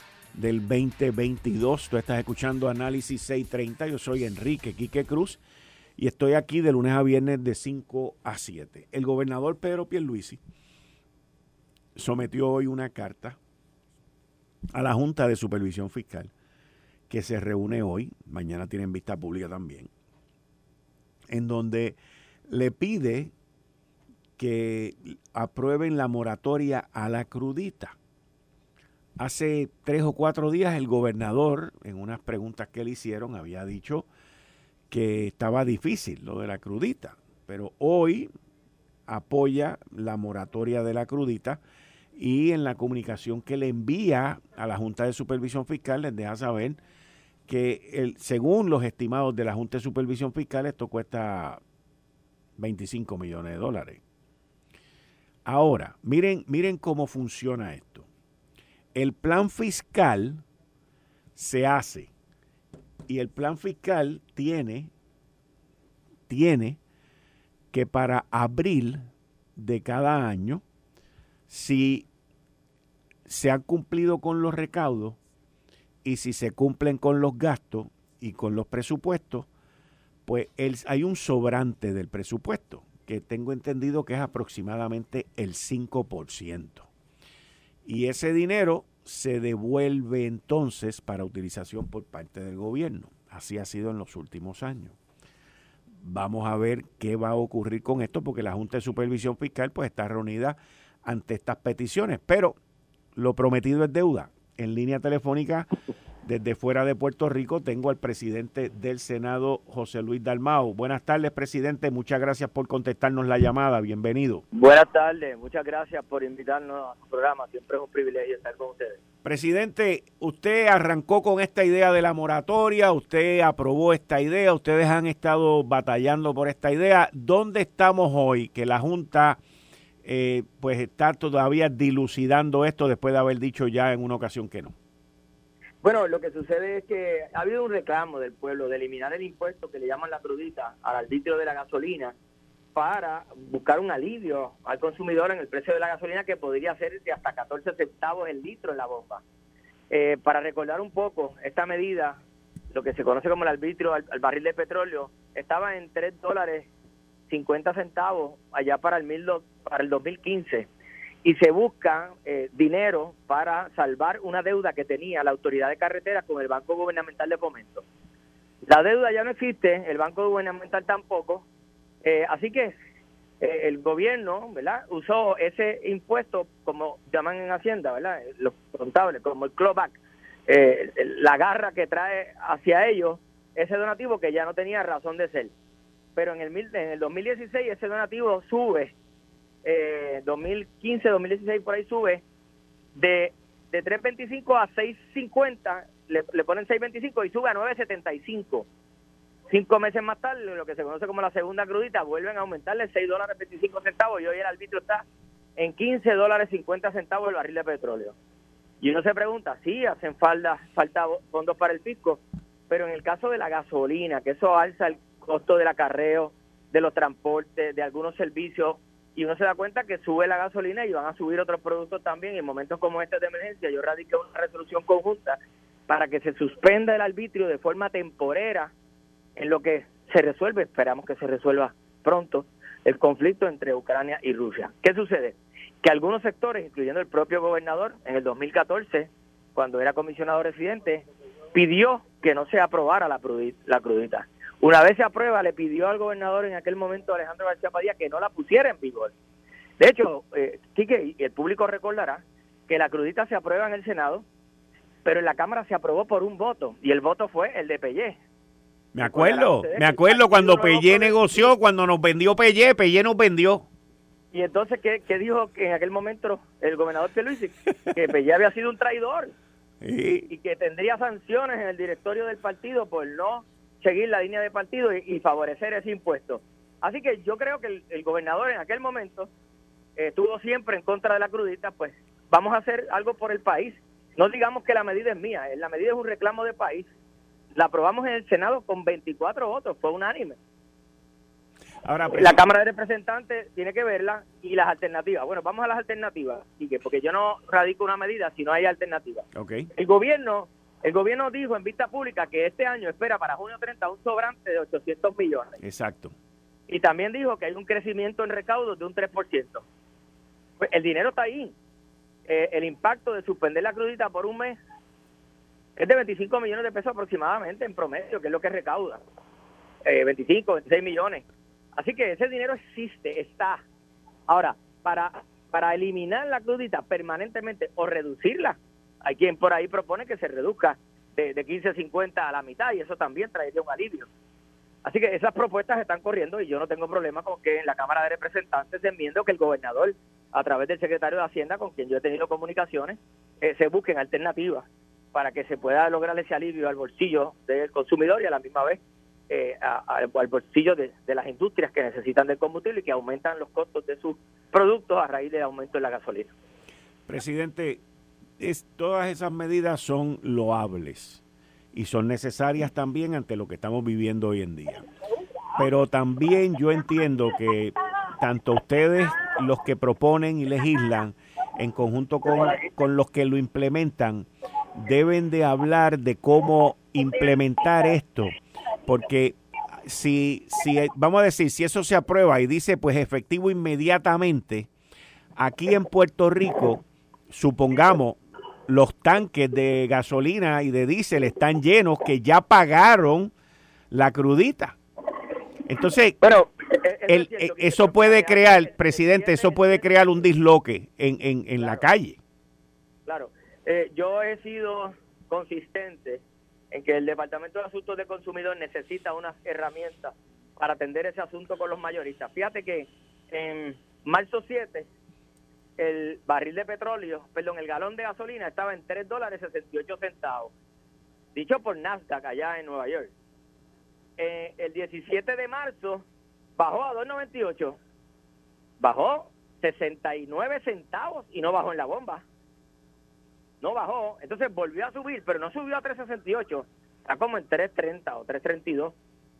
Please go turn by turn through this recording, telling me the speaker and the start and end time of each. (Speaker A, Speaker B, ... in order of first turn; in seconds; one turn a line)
Speaker A: 0.3-5.4
Speaker A: 6.0-10.4
Speaker A: 11.9-13.4
Speaker A: 14.7-16.3
Speaker A: 17.1-19.9
Speaker A: 21.3-23.3
Speaker A: 24.4-27.9
Speaker A: 29.2-34.1
Speaker A: 34.9-38.3
Speaker A: 39.1-41.6
Speaker A: 42.1-46.8
Speaker A: 47.5-51.6
Speaker A: 52.6-54.0
Speaker A: 55.4-58.1
Speaker A: 58.9-60.4
Speaker A: 61.4-62.1
Speaker A: 63.1-64.9
Speaker A: 66.3-66.8
Speaker A: 67.7-70.6
Speaker A: 71.5-72.1
Speaker A: 73.3-75.2
Speaker A: 76.0-79.5
Speaker A: 80.2-86.9
Speaker A: 87.8-95.0
Speaker A: 96.0-102.6
Speaker A: 103.1-105.7
Speaker A: 106.2-114.4
Speaker B: 114.5-119.0
Speaker A: 119.2-129.4
Speaker A: 130.0-134.7
Speaker B: 135.8-142.1
Speaker B: 142.7-149.2
Speaker B: 149.9-152.2
Speaker B: 152.7-156.7
Speaker B: 157.3-160.7
Speaker B: 161.2-167.8
Speaker B: 168.6-171.4
Speaker B: 172.0-172.7
Speaker B: 173.4-185.5
Speaker B: 186.2-188.9
Speaker B: 189.6-192.2
Speaker B: 192.9-198.7
Speaker B: 199.5-205.0
Speaker B: 205.6-208.1
Speaker B: 208.8-228.7
Speaker B: 229.4-249.1
Speaker B: 249.8-254.2
Speaker B: 255.0-258.2
Speaker A: 258.9-263.6
Speaker B: 259.0-261.5
Speaker B: 264.3-269.3
Speaker A: 269.8-270.3
Speaker B: 270.3-279.3
Speaker B: 280.0-286.9
Speaker B: 287.5-290.4
Speaker A: 291.8-292.4
Speaker B: 292.1-305.5
Speaker A: 299.3-299.7
Speaker A: 305.6-306.1
Speaker B: 306.7-309.6
Speaker B: 310.6-311.5
Speaker B: 312.3-314.6
Speaker B: 315.8-319.0
Speaker B: 319.8-321.2
Speaker B: 321.8-323.6
Speaker B: 324.3-334.1
Speaker B: 334.8-356.3
Speaker A: 357.1-357.8
Speaker A: 358.4-361.2
Speaker A: 361.7-364.9
Speaker A: 365.6-384.7
Speaker A: 385.4-393.3
Speaker A: 393.9-394.8
Speaker A: 395.6-396.2
Speaker B: 396.2-399.9
Speaker A: 397.1-402.2
Speaker B: 401.6-401.8
Speaker B: 403.1-414.9
Speaker B: 415.8-420.5
Speaker B: 421.3-423.1
Speaker B: 424.2-426.0
Speaker B: 426.6-427.8
Speaker B: 428.8-432.2
Speaker B: 433.6-438.9